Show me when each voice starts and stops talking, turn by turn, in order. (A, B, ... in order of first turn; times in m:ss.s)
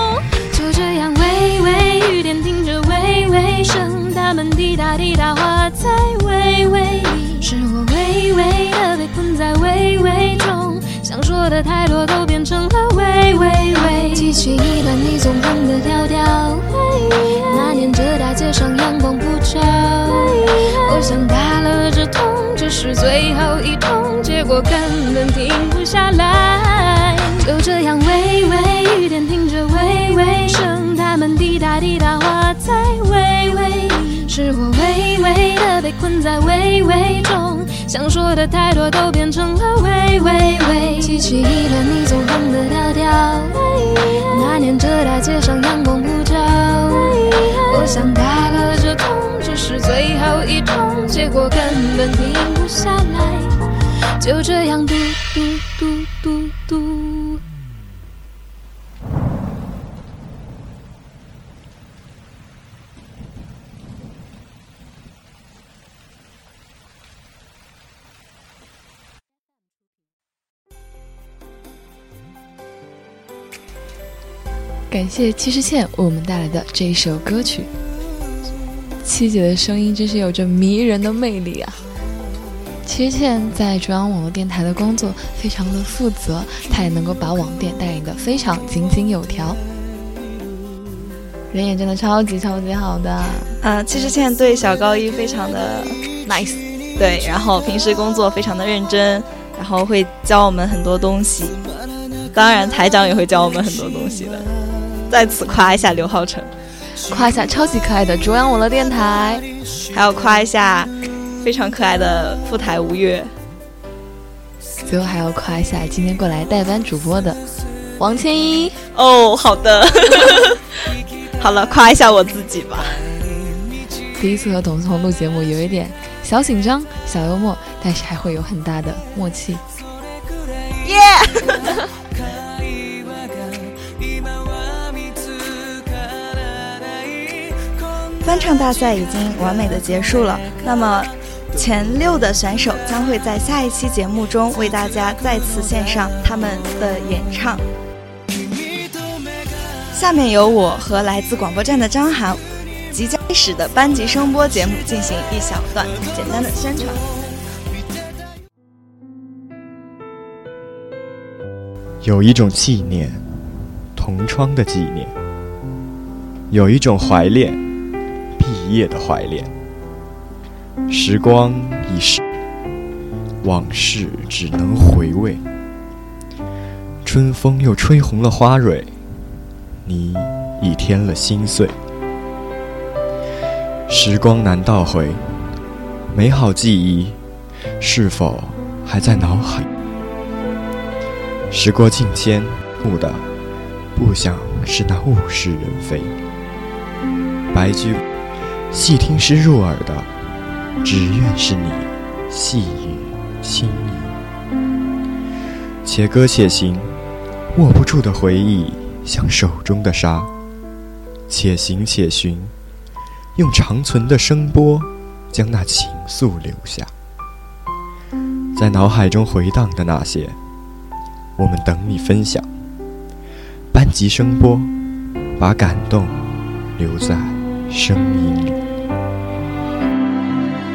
0:00.5-0:53.6 A
0:54.2-0:57.4 A
1:14.9-1:17.7 B
1:19.0-1:21.8 B
1:22.8-1:29.6 B
1:31.5-1:33.5 B
1:33.6-1:36.0 C
1:36.2-1:36.6 B
1:37.0-1:41.6 C
1:42.3-1:44.4 C
1:45.1-1:46.5 C
1:47.1-1:49.4 B
1:49.9-1:53.3 C
1:54.8-1:57.4 B
1:58.0-1:58.8 B
1:58.9-2:00.6 C
2:01.4-2:03.1 C
2:04.1-2:09.6 B
2:10.8-2:11.7 C
2:18.2-2:27.6 C
2:29.9-2:37.0 C
2:42.0-2:45.1 D
2:46.5-2:47.6 D
2:48.4-2:49.5 D
2:50.9-2:52.2 D
2:53.4-2:55.4 D
2:57.0-2:58.9 D
2:59.8-3:01.8 D
3:03.9-3:05.2 D
3:06.1-3:07.2 D
3:07.8-3:09.7 D
3:11.5-3:13.2 D
3:14.0-3:16.1 D
3:17.5-3:18.0 D
3:18.7-3:20.1 D
3:20.8-3:24.2 D
3:25.8-3:27.0 D
3:27.5-3:30.3 D
3:31.3-3:32.5 D
3:33.4-3:36.9 D
3:38.5-3:40.4 D
3:41.4-3:42.4 D
3:43.7-3:44.7 D
3:45.4-3:46.2 D
3:46.8-3:48.6 D